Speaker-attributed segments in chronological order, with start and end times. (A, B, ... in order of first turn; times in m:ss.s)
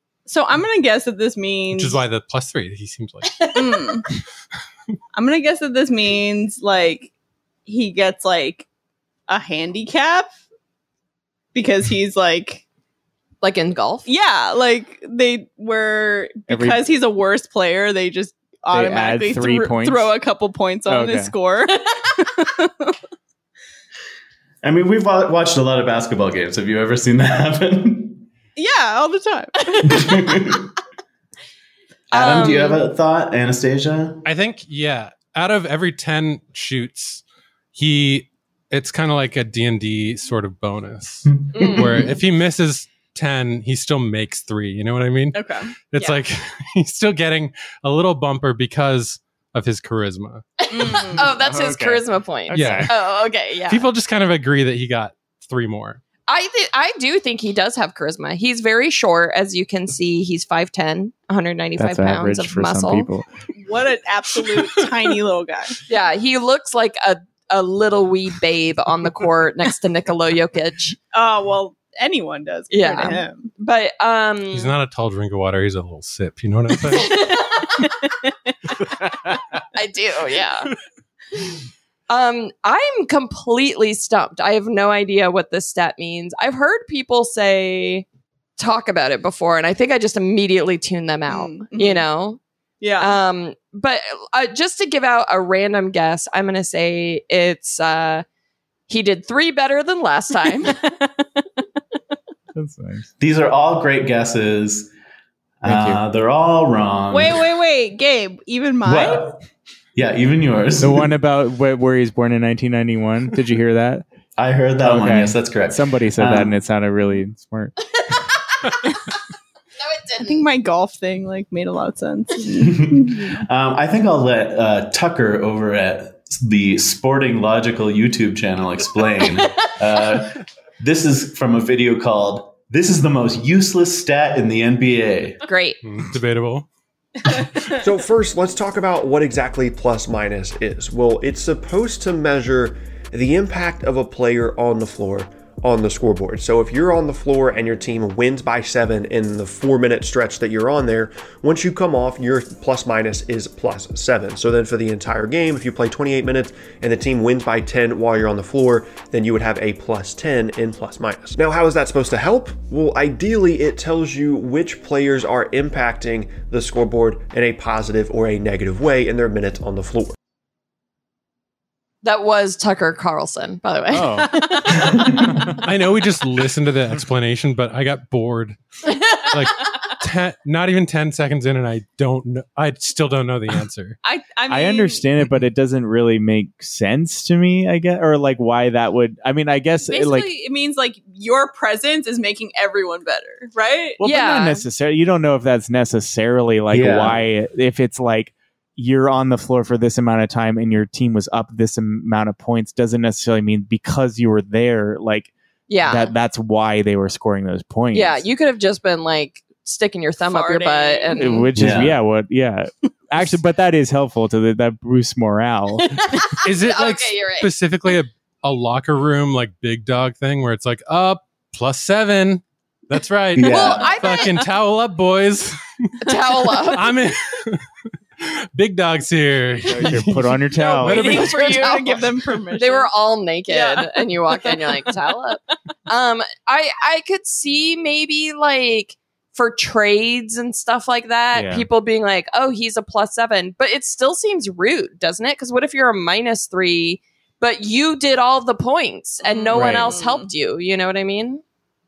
0:00.2-0:02.0 A
0:01.7-0:03.5 B
0:03.5-0:04.0 A
0:05.1-0:07.1 A
0:07.6-0:08.6 A
0:09.3-0:10.3 A
0:11.5-0:12.6 A
0:13.4-0:14.0 C
0:14.0-0:22.9 A
0:16.5-0:16.9 D
0:18.7-0:20.1 D
0:20.8-0:21.4 D
0:24.6-0:28.2 E
0:28.6-0:30.1 A
0:29.8-0:30.7 E
0:32.1-0:32.8 C
0:32.1-0:34.2 E
0:34.2-0:37.2 B
0:37.7-0:50.5 B
0:41.3-0:42.2 E
0:41.5-0:41.9 C
0:45.3-0:45.7 A
0:50.7-0:53.8 C
0:50.7-0:51.3 A
0:51.3-0:52.9 D
0:52.5-0:53.0 B
0:53.7-0:56.0 B
0:56.3-1:03.1 C
1:01.8-1:03.2 D
1:03.5-1:05.7 A
1:05.9-1:11.0 C
1:11.1-1:13.5 A
1:12.7-1:14.7 C
1:14.5-1:17.2 B
1:16.9-1:17.8 C
1:17.8-1:18.5 A
1:19.7-1:20.7 C
1:22.1-1:28.0 C
1:28.6-1:32.4 C
1:31.3-1:32.0 A
1:32.8-1:33.2 A
1:33.0-1:38.2 C
1:38.9-1:40.8 C
1:40.6-1:41.1 A
1:42.5-1:43.1 D
1:43.2-1:44.9 E
1:45.6-1:47.5 E
1:45.6-1:46.0 D
1:47.1-1:49.3 A
1:48.8-1:49.4 E
1:50.0-1:51.1 E
1:50.8-1:54.0 D
1:54.4-1:56.6 E
1:54.8-1:57.7 D
1:59.8-2:00.4 C
2:00.2-2:03.4 A
2:02.6-2:15.4 E
2:15.5-2:15.8 C
2:15.8-2:16.7 B
2:17.8-2:50.1 F
2:52.0-2:54.9 C
2:53.9-2:54.4 D
2:55.2-2:55.6 D
2:55.6-2:58.6 B
2:59.3-3:04.0 B
3:04.0-3:05.0 A
3:04.5-3:10.3 D
3:09.9-3:10.3 C
3:10.0-3:14.0 A
3:14.0-3:25.3 D
3:14.0-3:14.6 C
3:16.7-3:17.2 E
3:25.7-3:26.1 C
3:25.8-3:28.2 D
3:27.9-3:31.5 C
3:30.2-3:31.4 A
3:31.1-3:36.0 D
3:31.5-3:32.0 E
3:36.1-3:37.5 C
3:36.4-3:47.6 B
3:43.3-3:43.9 E
3:43.4-3:44.4 C
3:46.0-3:46.9 C
3:48.2-3:51.8 B
3:49.7-3:51.2 D
3:50.7-3:52.9 A
3:50.9-4:11.4 C
3:53.5-3:54.8 A
4:01.3-4:01.7 D
4:09.2-4:10.3 A
4:09.5-4:10.0 D